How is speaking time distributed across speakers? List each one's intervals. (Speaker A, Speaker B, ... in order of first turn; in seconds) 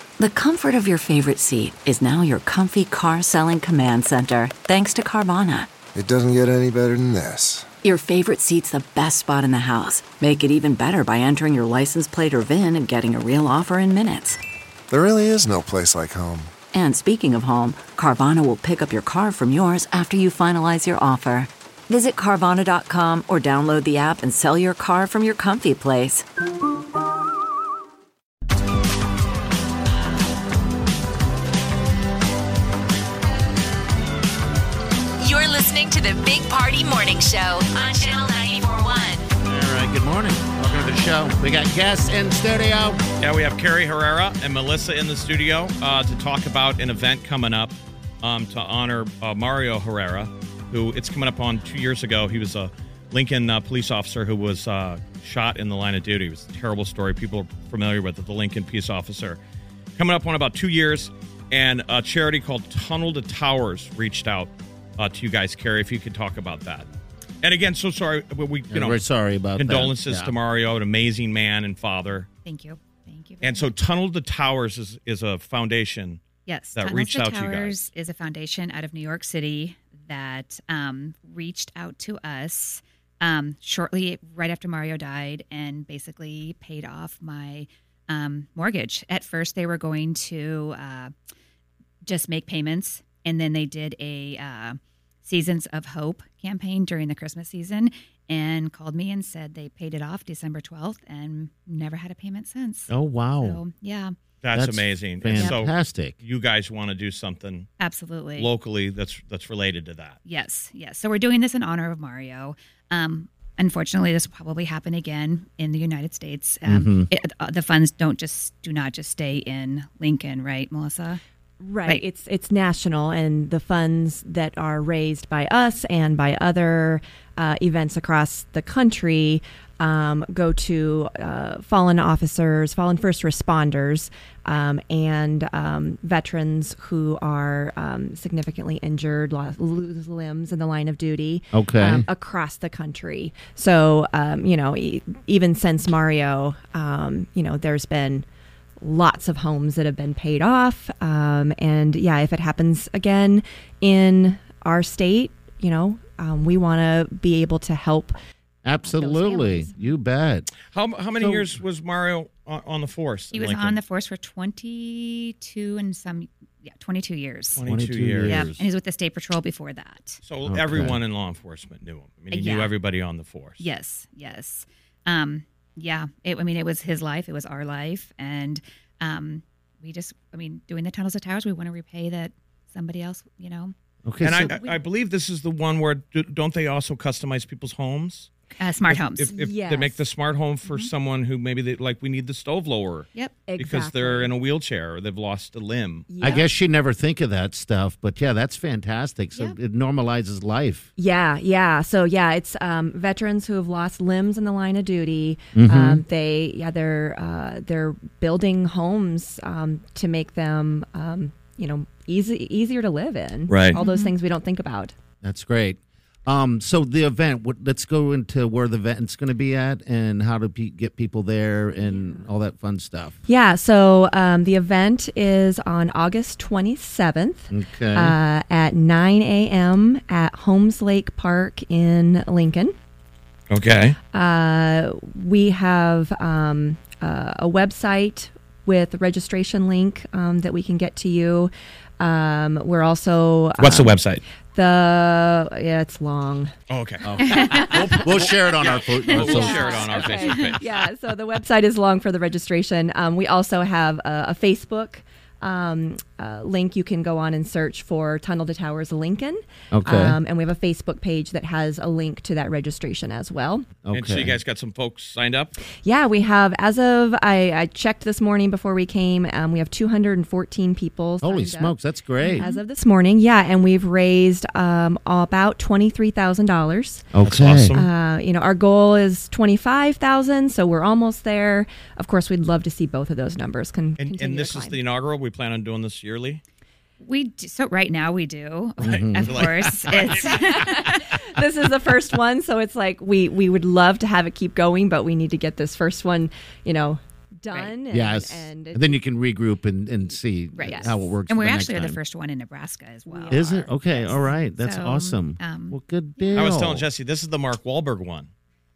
Speaker A: 0.2-5.7, 7.8-14.4, 16.7-26.2
Speaker B: 6.0-7.7, 14.9-16.6
Speaker C: 35.2-39.3
Speaker D: 39.5-43.0, 68.7-70.4, 102.9-103.6, 104.5-106.2, 116.7-117.1, 141.5-142.1, 158.7-160.5, 161.2-161.6, 167.7-168.7, 170.5-171.0, 184.1-184.5, 196.2-200.9, 205.6-206.0, 215.2-223.2, 227.5-228.2, 247.0-249.8, 259.7-260.2, 263.8-264.4, 271.2-272.5, 277.1-277.8, 288.8-289.7, 297.9-302.0, 303.3-306.9
Speaker E: 43.2-59.4, 60.0-66.9, 67.4-69.0, 69.6-72.3, 73.4-76.2, 76.8-77.8, 104.4-107.7, 108.4-110.2, 160.7-163.8, 167.6-168.4, 170.3-173.7, 184.2-188.3, 188.9-196.1, 213.5-213.8, 233.5-234.0, 243.6-244.2, 246.7-250.9, 263.9-265.5, 277.2-277.9, 284.0-286.4, 289.2-290.4, 306.4-308.3
Speaker F: 72.5-73.7, 76.5-91.1, 92.0-104.2, 105.3-105.6, 107.8-108.5, 110.2-121.2, 163.3-167.6, 168.2-170.2, 172.3-172.7, 173.6-183.7, 184.3-184.8, 188.6-189.3, 213.8-214.1, 247.2-248.0, 249.1-250.6, 272.2-272.6, 287.0-290.9, 300.6-305.8
Speaker G: 121.6-148.2, 148.8-158.2, 158.8-159.8, 189.3-190.0, 193.5-194.3, 196.1-196.5, 201.0-214.9, 221.8-222.3, 223.3-232.7, 234.1-244.0, 244.6-246.5, 249.0-263.7, 265.8-277.1, 277.7-284.8, 290.2-299.0, 300.7-301.0, 303.1-303.6